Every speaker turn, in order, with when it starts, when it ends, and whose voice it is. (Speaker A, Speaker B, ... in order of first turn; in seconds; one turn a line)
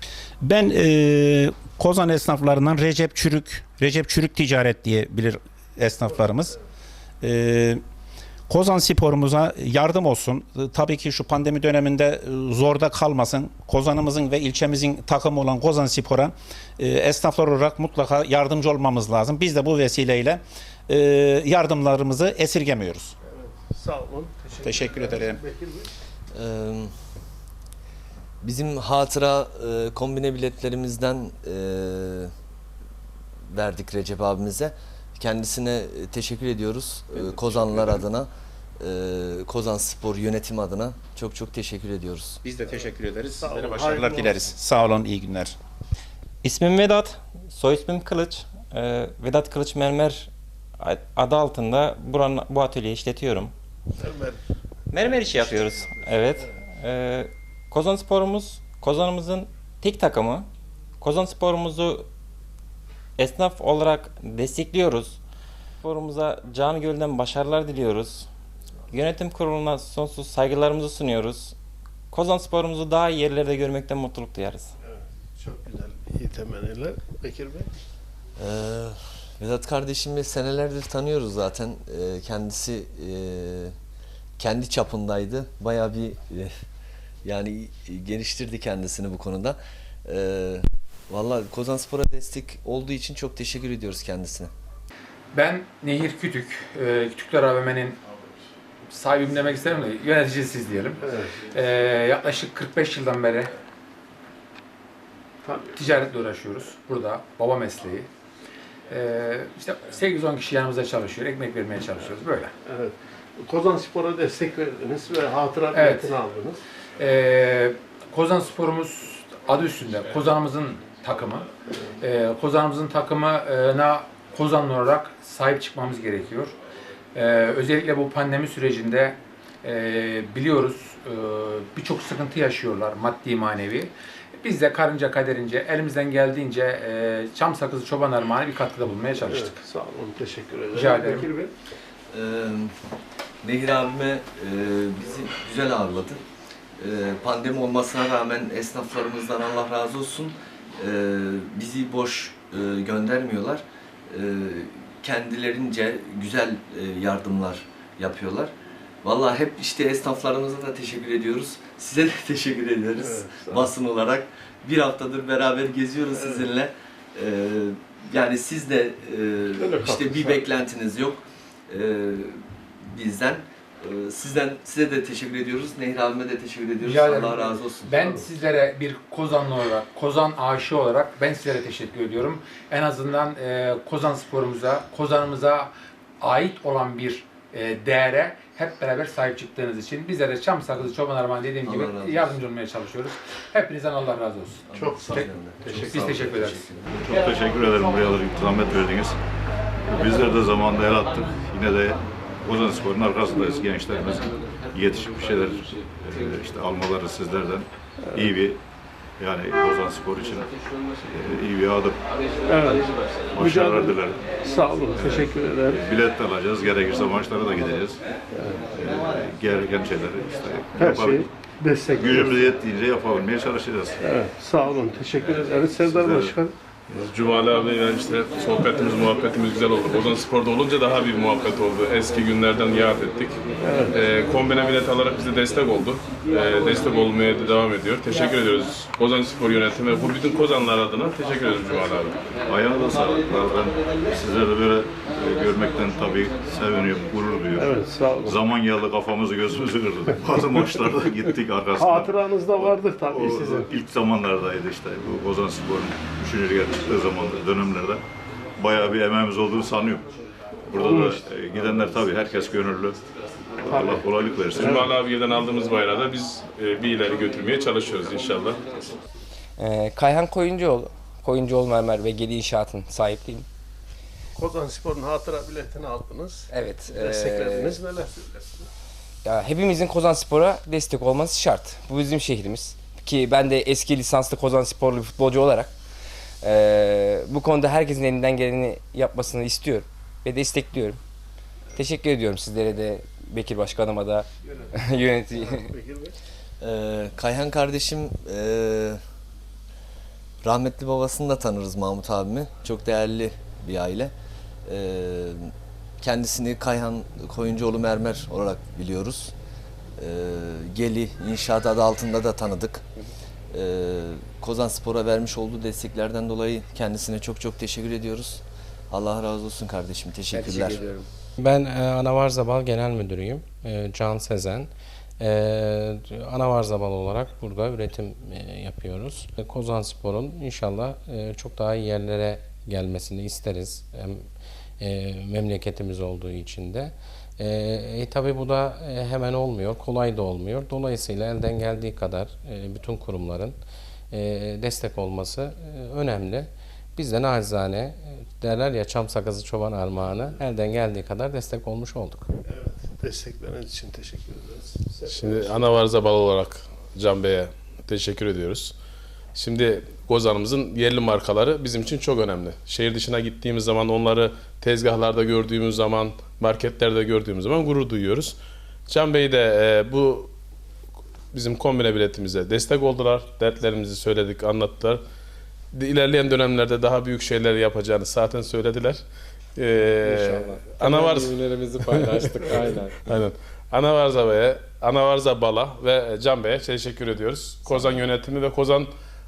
Speaker A: 0.6-6.5
Speaker A: 7.2-7.7
Speaker A: 8.5-16.3
Speaker A: 16.8-20.4
Speaker A: 20.9-23.1
Speaker B: 23.2-25.9
Speaker A: 24.6-25.4
Speaker C: 26.3-26.9
Speaker C: 28.4-32.3
Speaker C: 33.5-38.3
Speaker C: 38.8-42.4
Speaker A: 42.5-45.5
Speaker B: 42.7-44.5
Speaker D: 46.4-53.5
Speaker B: 54.0-54.4
Speaker D: 54.9-60.5
Speaker B: 55.0-56.5
Speaker D: 61.0-62.1
Speaker D: 63.2-65.2
Speaker D: 65.8-68.3
Speaker D: 68.9-71.5
Speaker D: 72.1-74.7
Speaker B: 74.8-77.7
Speaker C: 78.4-83.7
Speaker C: 84.4-86.5
Speaker C: 87.2-94.5
Speaker E: 95.3-98.0
Speaker E: 98.8-103.5
Speaker B: 101.0-101.3
Speaker B: 105.4-106.1
Speaker E: 105.7-108.1
Speaker E: 108.9-112.5
Speaker B: 112.6-116.6
Speaker E: 115.7-116.1
Speaker E: 117.0-121.5
Speaker E: 122.0-126.5
Speaker E: 127.1-139.6
Speaker B: 139.2-141.5
Speaker E: 140.7-141.3
Speaker C: 142.1-142.7
Speaker C: 143.4-146.2
Speaker C: 146.8-158.5
Speaker C: 159.0-178.2
Speaker B: 162.9-163.7
Speaker B: 166.1-166.5
Speaker B: 169.6-170.5
Speaker E: 176.8-196.7
Speaker C: 191.6-192.4
Speaker C: 194.7-196.8
Speaker B: 194.7-195.1
Speaker B: 195.6-196.0
Speaker F: 197.0-199.2
Speaker F: 199.9-208.6
Speaker F: 209.2-210.5
Speaker F: 211.1-212.0
Speaker B: 212.5-215.8
Speaker F: 213.3-214.3
Speaker F: 214.9-218.0
Speaker B: 218.3-218.6
Speaker F: 218.7-221.3
Speaker B: 220.8-222.5
Speaker F: 221.9-224.0
Speaker B: 224.0-226.5
Speaker F: 225.4-226.4
Speaker G: 227.0-242.2
Speaker B: 233.6-233.9
Speaker F: 242.5-258.0
Speaker B: 247.6-248.4
Speaker B: 251.8-253.8
Speaker F: 258.6-260.1
Speaker F: 260.7-263.0
Speaker B: 260.8-261.2
Speaker F: 263.6-264.9
Speaker B: 263.7-264.9
Speaker G: 264.5-268.6
Speaker H: 269.6-273.4
Speaker B: 274.3-278.7
Speaker H: 276.5-277.8
Speaker H: 279.2-285.7
Speaker H: 286.4-291.0
Speaker H: 291.8-295.7
Speaker B: 295.4-296.1
Speaker C: 296.6-299.0
Speaker C: 300.4-304.1
Speaker C: 304.6-309.3
Speaker C: 310.0-312.8
Speaker C: 313.5-320.9
Speaker H: 320.3-321.0
Speaker I: 321.4-334.2
Speaker I: 334.8-343.6
Speaker I: 344.1-352.3
Speaker B: 352.4-355.7
Speaker G: 355.1-358.7
Speaker G: 359.3-368.4
Speaker G: 368.9-370.3
Speaker G: 371.3-375.0
Speaker G: 375.7-379.0
Speaker G: 379.6-388.9
Speaker I: 380.0-383.0